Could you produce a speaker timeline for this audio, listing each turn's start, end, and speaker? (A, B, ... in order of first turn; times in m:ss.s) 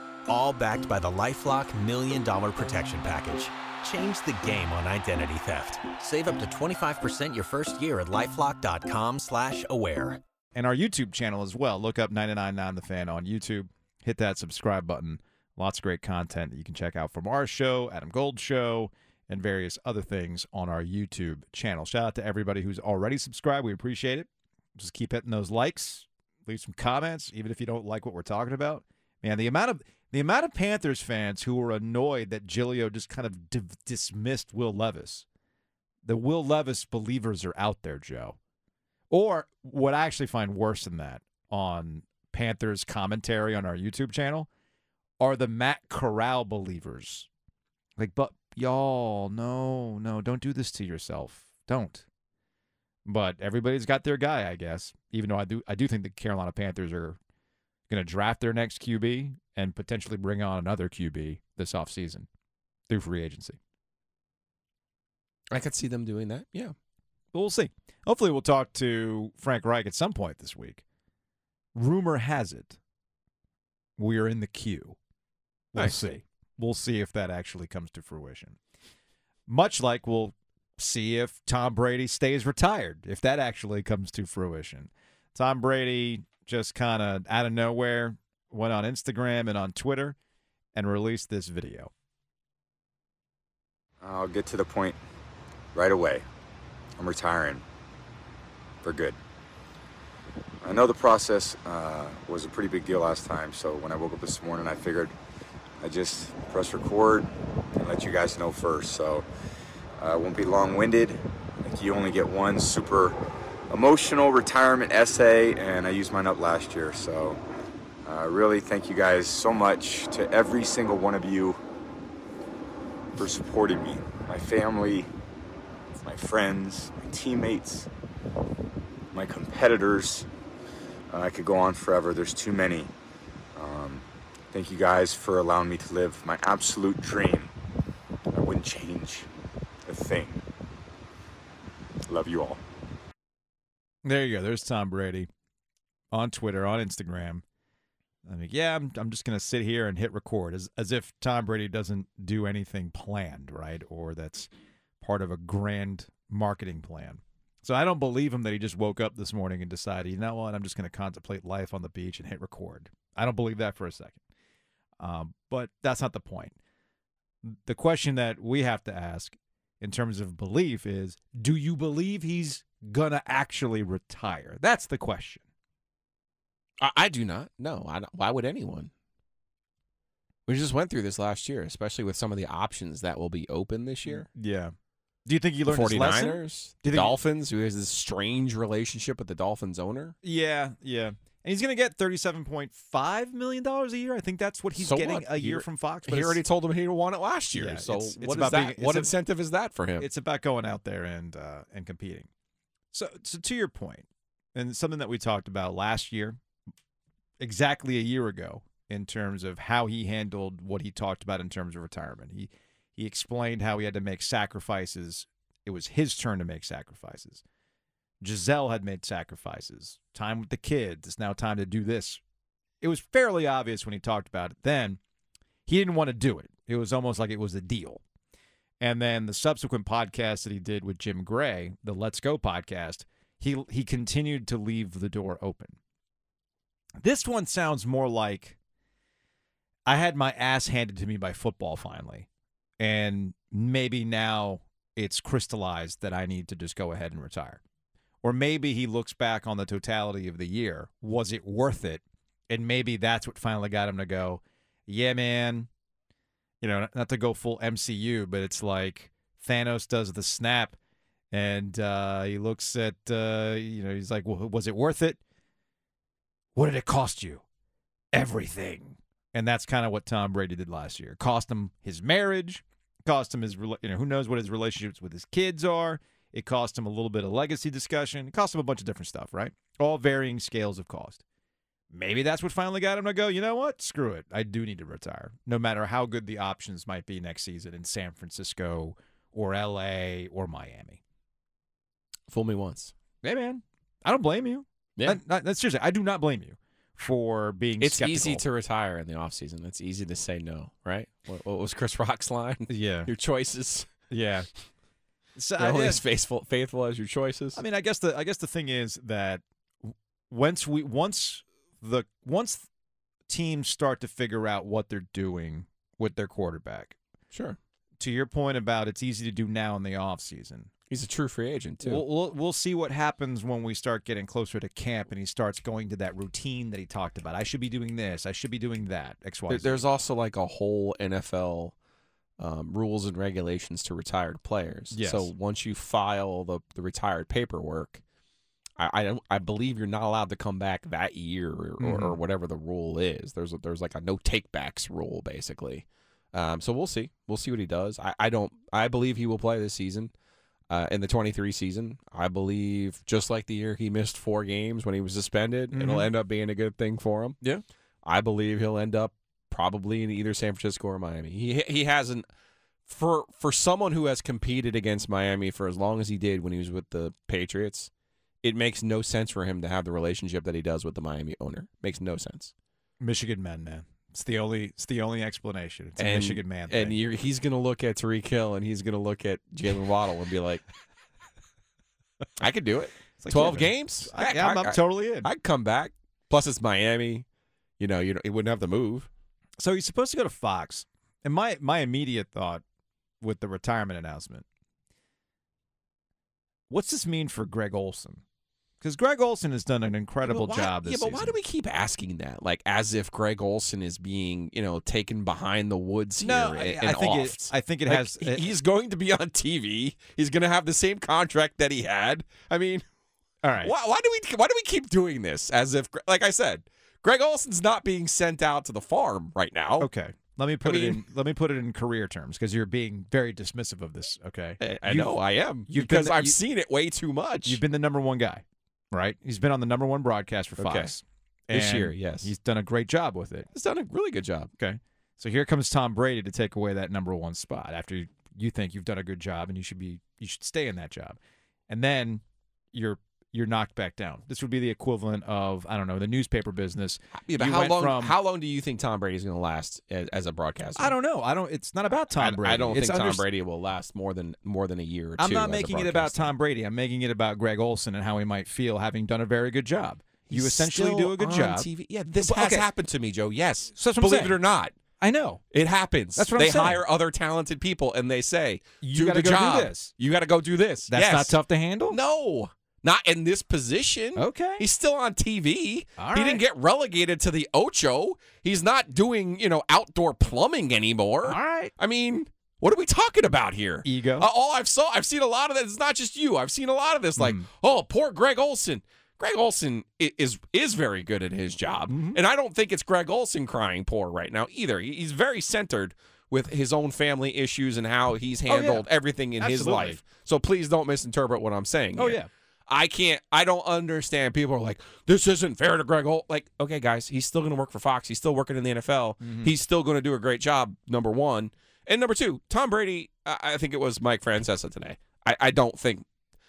0:00.3-0:10.2 A
0:10.5-0:35.2 B
0:36.0-0:38.4 B
0:39.1-0:44.5 B
0:45.2-0:47.3 B
0:48.0-0:52.0 B
0:53.0-0:57.2 B
0:57.9-1:02.3 B
1:02.9-1:03.6 B
1:05.5-1:06.7 C
1:07.3-1:10.8 B
1:11.8-1:12.8 B
1:14.0-1:15.0 B
1:15.7-1:18.6 B
1:19.5-1:30.2 B
1:30.7-1:31.9 B
1:34.0-1:35.0 D
1:35.7-1:36.2 D
1:37.0-1:37.6 D
1:38.8-1:39.2 D
1:40.6-1:45.1 D
1:45.8-1:49.2 D
1:50.0-1:53.2 D
1:53.7-1:57.4 D
1:58.0-2:01.6 D
2:03.2-2:05.1 D
2:05.9-2:07.9 D
2:09.1-2:10.3 D
2:11.1-2:12.9 D
2:13.5-2:17.5 D
2:18.3-2:19.3 D
2:19.8-2:20.4 D
2:22.1-2:22.6 D
2:24.0-2:25.3 B
2:26.1-2:27.4 B
2:28.2-2:44.2 B
2:45.0-2:46.6 B
2:47.4-2:55.4 B
2:56.8-2:58.9 C
3:00.5-3:04.3 C
3:04.1-3:04.7 B
3:05.2-3:07.2 B
3:05.7-3:10.2 C
3:10.2-3:16.4 B
3:14.8-3:20.1 C
3:17.5-3:19.1 B
3:20.0-3:22.3 B
3:22.9-3:26.4 B
3:27.4-3:37.4 B
3:38.2-3:42.2 B
3:42.8-3:45.0 B
3:45.7-3:48.0 B
3:48.8-3:55.8 B
3:57.0-3:58.6 B
3:59.9-4:02.3 B
4:02.8-4:07.6 B
4:08.2-4:15.7 B
4:16.6-4:20.8 B
4:21.3-4:25.2 B
4:26.5-4:27.4 B
4:28.1-4:41.2 B
4:41.9-4:51.0 B
4:52.3-4:52.9 C
4:53.2-4:58.4 B
4:57.8-5:03.9 C
5:02.7-5:03.1 B
5:04.1-5:04.5 B
5:05.4-5:06.0 B
5:05.6-5:07.6 C
5:07.5-5:12.7 B
5:13.3-5:17.0 B
5:17.3-5:17.6 C
5:18.0-5:20.7 B
5:20.9-5:22.0 C
5:21.8-5:29.8 B
5:29.5-5:31.8 C
5:32.4-5:38.0 C
5:34.9-5:35.3 B
5:38.8-5:50.1 C
5:41.8-5:42.2 B
5:50.7-5:57.4 C
5:55.7-5:56.1 B
5:58.0-6:02.2 C
6:02.9-6:07.9 C
6:08.4-6:12.5 C
6:13.0-6:17.0 B
6:16.0-6:20.6 C
6:22.4-6:27.2 C
6:23.2-6:25.3 B
6:27.8-6:29.1 C
6:29.6-6:32.6 B
6:33.2-6:34.5 B
6:36.7-6:38.2 B
6:38.8-6:41.4 B
6:40.2-6:52.8 C
6:46.2-6:48.5 B
6:53.4-6:53.7 B
6:53.6-6:59.9 C
6:59.8-7:05.2 B
7:00.6-7:01.0 C
7:04.6-7:07.6 C
7:05.7-7:06.4 B
7:07.5-7:13.5 B
7:10.6-7:10.9 C
7:11.5-7:12.3 C
7:13.5-7:14.5 C
7:14.6-7:21.2 B
7:21.7-7:28.2 B
7:27.2-7:30.9 C
7:30.8-7:33.2 B
7:32.2-7:36.3 C
7:35.2-7:41.7 B
7:40.3-7:44.7 C
7:42.2-7:42.7 B
7:43.8-7:44.4 B
7:45.0-7:45.4 B
7:45.5-7:51.4 C
7:46.2-7:46.8 B
7:48.8-7:49.9 B
7:50.9-7:52.0 B
7:51.9-8:36.1 C
7:54.1-7:54.6 B
7:56.0-7:56.4 B
8:01.2-8:01.7 B
8:03.8-8:04.3 B
8:07.2-8:07.5 B
8:11.9-8:12.2 B
8:18.5-8:18.9 B
8:19.4-8:20.0 B
8:22.0-8:22.3 B
8:29.2-8:29.5 B